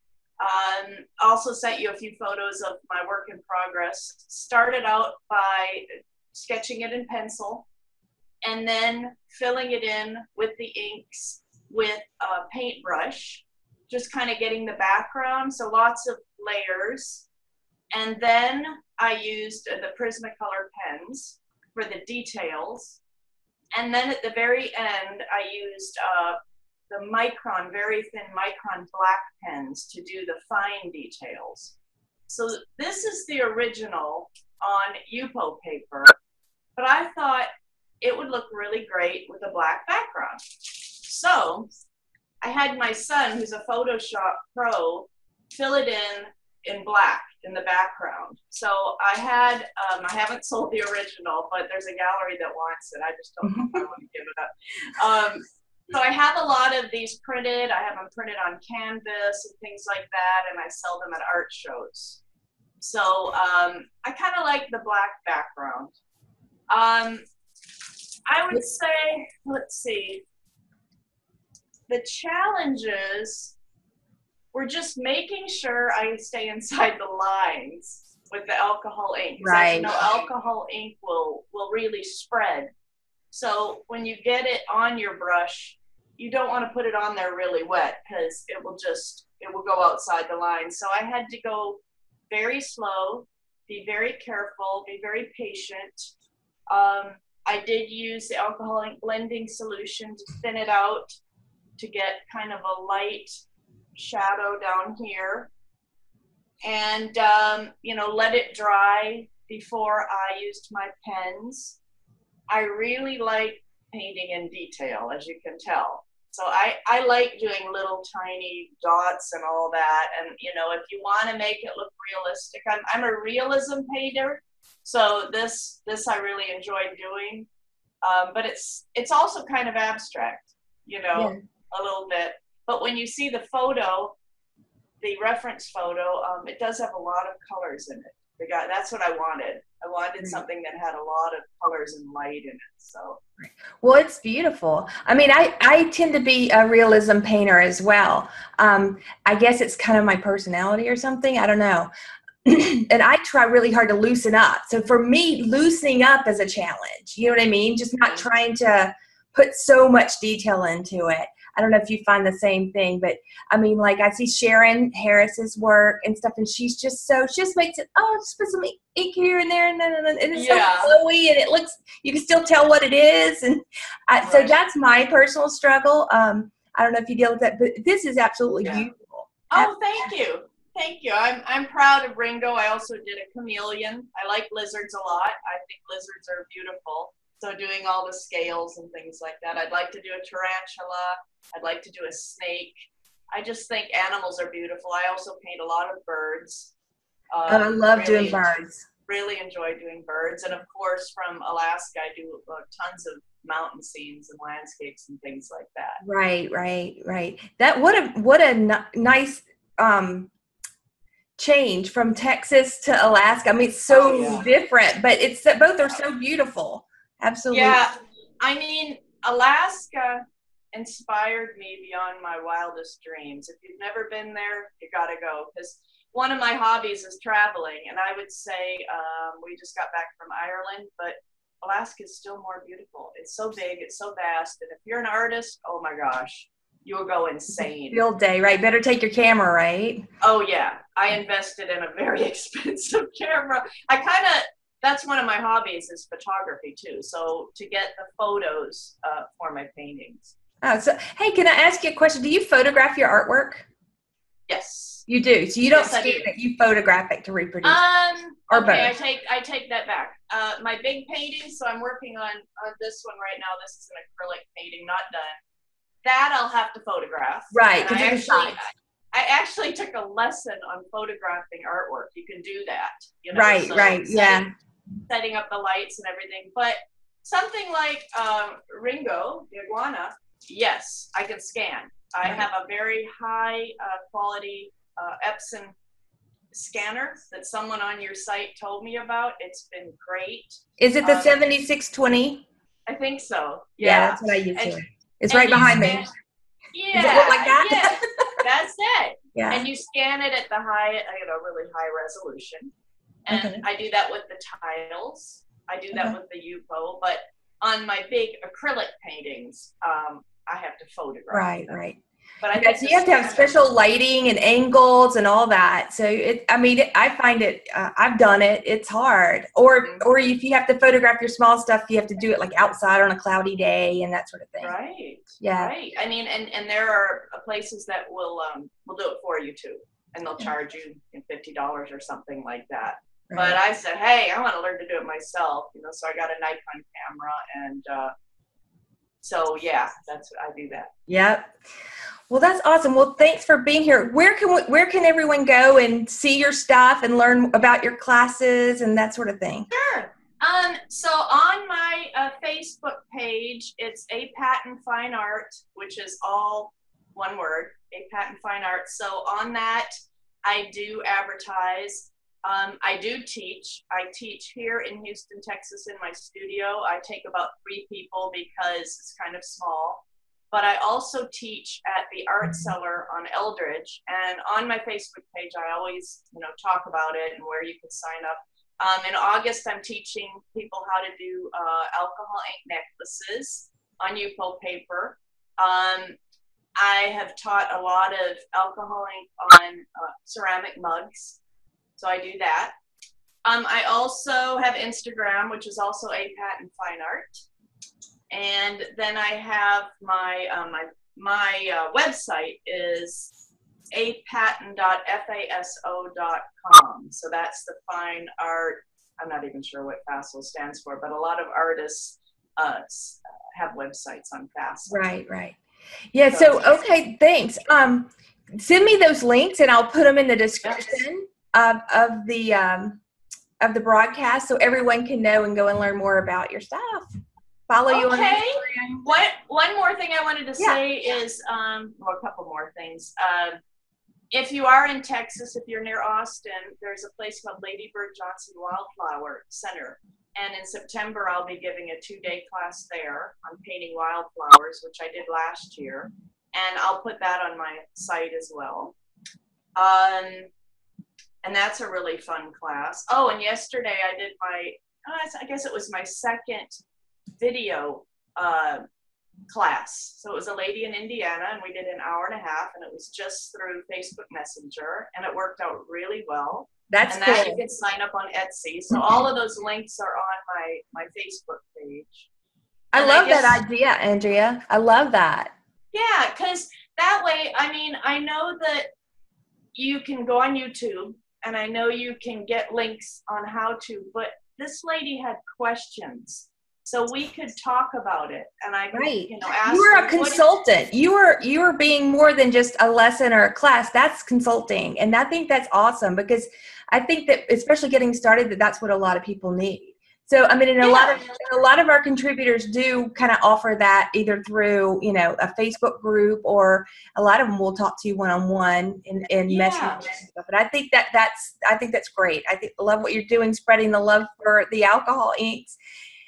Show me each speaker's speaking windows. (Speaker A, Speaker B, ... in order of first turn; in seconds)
Speaker A: 0.4-7.7, 8.4-17.3, 17.9-23.0, 23.7-26.4, 26.9-31.8, 32.3-36.1, 36.8-37.5, 38.0-41.7, 42.4-62.2, 62.8-65.9, 66.7-67.2, 68.3-70.2, 71.9-73.5, 74.5-82.7, 83.3-91.8, 92.3-96.1, 96.7-101.1, 101.8-103.3, 104.0-105.5, 106.6-111.8, 112.5-127.5, 128.0-134.2, 135.0-143.2, 170.3-170.9, 174.2-174.6, 178.6-178.9, 179.5-196.7, 197.3-198.5, 199.1-206.0, 213.9-214.5, 217.5-220.2, 220.7-238.0, 240.2-250.3, 254.5-255.1, 255.7-256.3, 257.6-265.3, 266.0-274.4, 275.1-285.7, 286.5-291.4, 292.9-296.1, 296.7-302.7, 303.2-311.8, 312.4-313.5, 319.8-320.1, 324.6-338.1, 339.2-340.9, 349.7-359.9, 360.4-386.2, 386.8-391.4, 392.0-392.7, 393.4-397.4, 398.3-403.3, 403.9-415.0, 416.3-416.8, 420.6-421.0, 427.9-433.6, 434.3-448.9, 449.8-450.5, 451.4-456.8, 457.4-458.8, 459.5-472.3, 472.9-473.6, 475.9-478.9, 479.7-490.4, 500.8-501.4, 509.5-510.1
Speaker B: 53.4-53.8, 79.4-79.9, 143.4-151.9, 152.4-179.7, 197.5-198.8, 206.0-210.3, 211.4-217.8, 237.6-240.0, 250.6-253.6, 255.1-257.8, 258.5-258.9, 267.5-268.6, 273.3-274.5, 290.8-292.4, 293.8-296.1, 296.9-298.3, 299.3-299.6, 303.3-303.6, 311.3-312.0, 312.5-324.7, 325.4-325.7, 333.3-333.6, 341.1-341.5, 342.3-349.7, 414.9-415.6, 416.1-423.0, 423.6-427.1, 427.7-429.1, 466.9-467.6, 472.9-475.5, 488.9-515.8